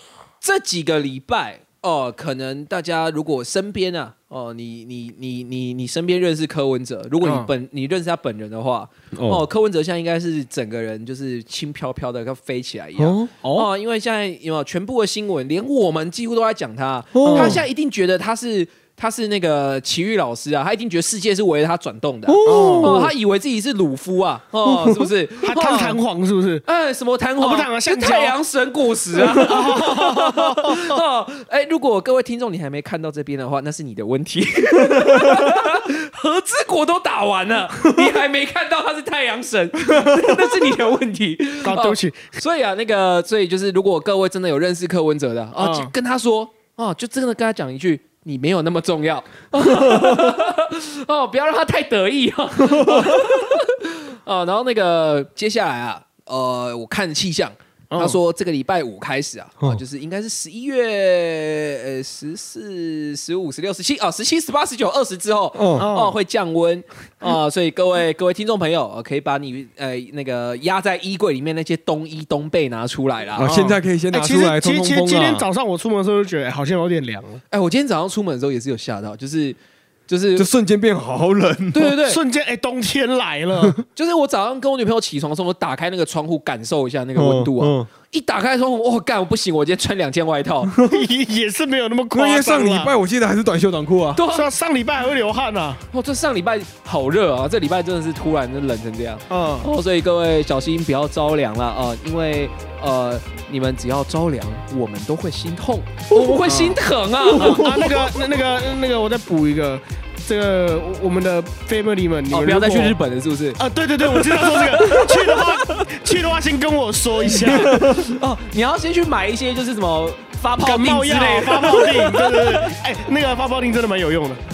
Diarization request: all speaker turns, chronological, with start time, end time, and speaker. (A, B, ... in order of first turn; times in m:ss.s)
0:00.4-0:26.0 A
0:07.2-0:07.5 B
0:09.1-0:09.4 C
0:13.0-0:13.3 C
0:13.4-0:13.7 B
0:17.1-0:17.6 C
0:17.2-0:17.6 B
0:22.3-0:23.1 C
0:22.4-0:23.1 B
0:24.7-0:25.0 C
0:25.4-0:26.6 B
0:26.6-1:13.5 A
0:27.4-0:28.4 B
0:29.1-0:31.0 B
0:35.1-0:35.5 C
0:39.9-0:40.7 C
0:41.6-0:42.3 B
0:45.6-0:45.9 B
0:49.8-0:50.3 C
0:52.6-0:53.5 C
0:57.9-0:58.2 B
1:05.6-1:05.9 C
1:05.8-1:06.1 B
1:13.4-1:15.4 C
1:13.4-1:17.4 B
1:17.5-1:20.5 A
1:20.4-1:22.0 C
1:21.7-1:22.2 A
1:22.0-1:23.8 B
1:23.9-1:30.7 A
1:27.2-1:27.9 C
1:30.8-1:31.0 C
1:30.9-1:32.9 B
1:32.1-1:34.2 C
1:34.1-1:34.5 A
1:34.3-1:35.8 B
1:35.9-1:47.9 A
1:39.3-1:39.7 B
1:46.5-1:46.8 B
1:47.3-1:48.0 C
1:47.4-1:53.0 B
1:52.3-1:55.9 A
1:53.6-1:57.8 B
1:57.4-1:58.1 C
1:57.5-2:02.7 A
2:00.6-2:04.4 B